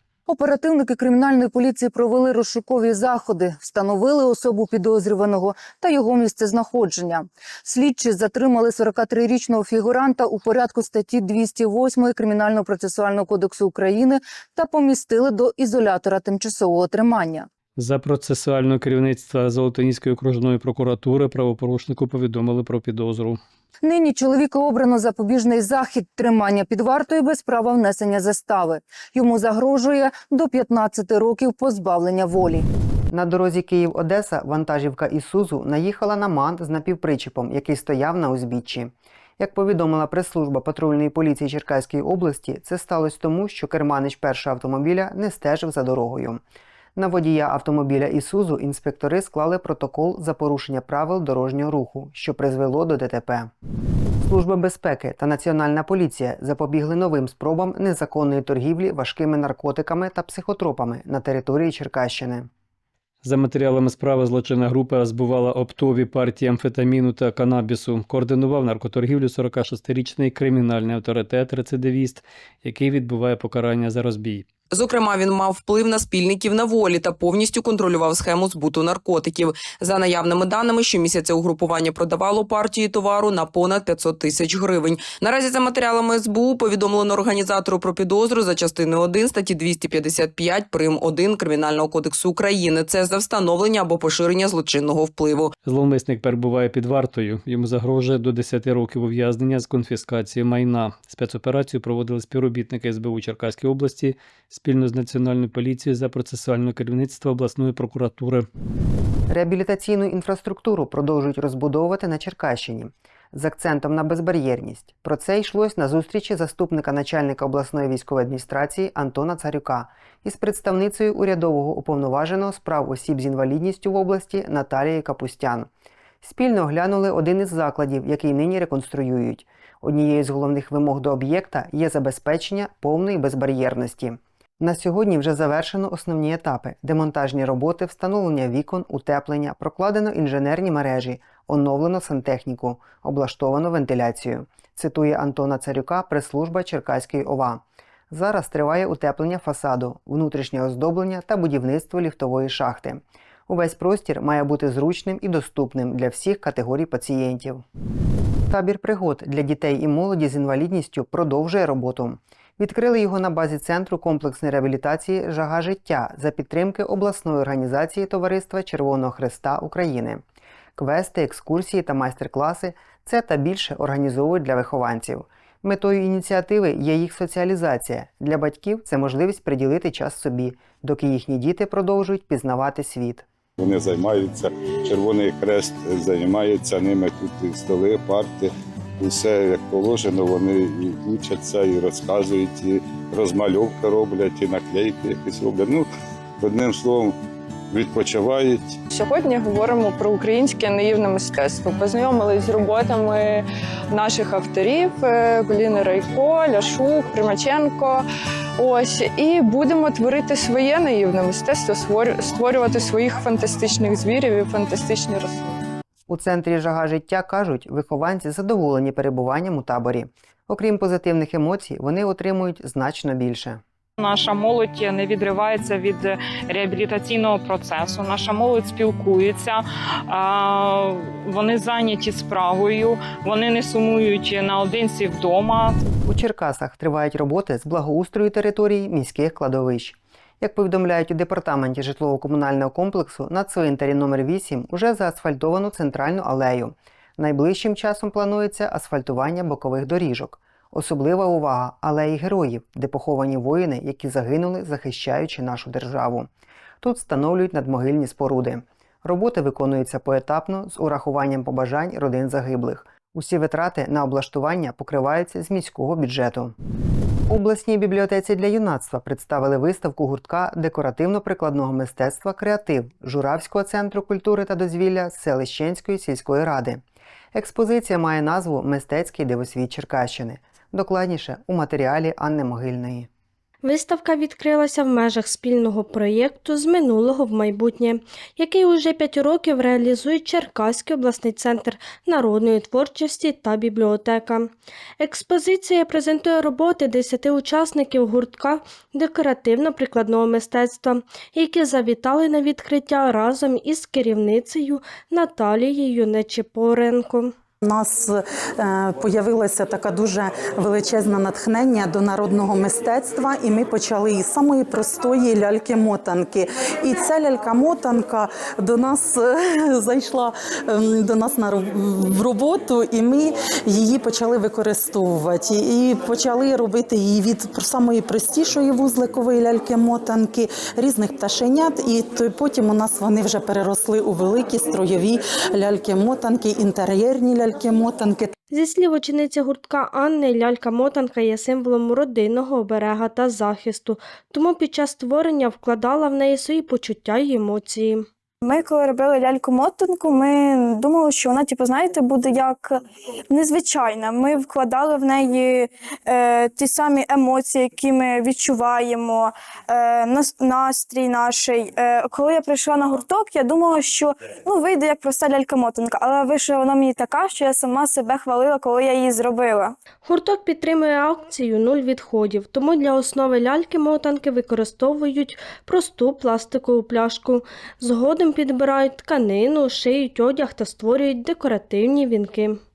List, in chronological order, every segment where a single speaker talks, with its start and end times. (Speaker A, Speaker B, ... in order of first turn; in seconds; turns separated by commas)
Speaker A: 0.3-17.5, Speaker B: 17.8-23.4, Speaker A: 23.8-32.7, Speaker C: 33.1-46.4, Speaker C: 47.0-53.5, Speaker C: 54.2-62.5, Speaker B: 63.2-74.5, Speaker D: 74.7-95.5, Speaker B: 95.6-108.5, Speaker C: 109.3-125.7, Speaker C: 126.2-157.6, Speaker C: 158.5-170.2, Speaker C: 170.8-183.2, Speaker E: 183.6-195.9, Speaker E: 196.4-197.2, Speaker E: 197.7-198.8, Speaker F: 198.9-208.0, Speaker F: 208.6-215.4, Speaker C: 216.1-223.6, Speaker G: 224.0-229.6, Speaker G: 230.1-235.7, Speaker C: 236.1-256.3, Speaker C: 256.8-266.6, Speaker C: 267.3-276.8, Speaker C: 277.3-283.1, Speaker H: 283.6-307.3, Speaker I: 307.6-338.3, Speaker H: 338.5-348.1, Speaker J: 348.4-369.8, Speaker H: 370.1-382.6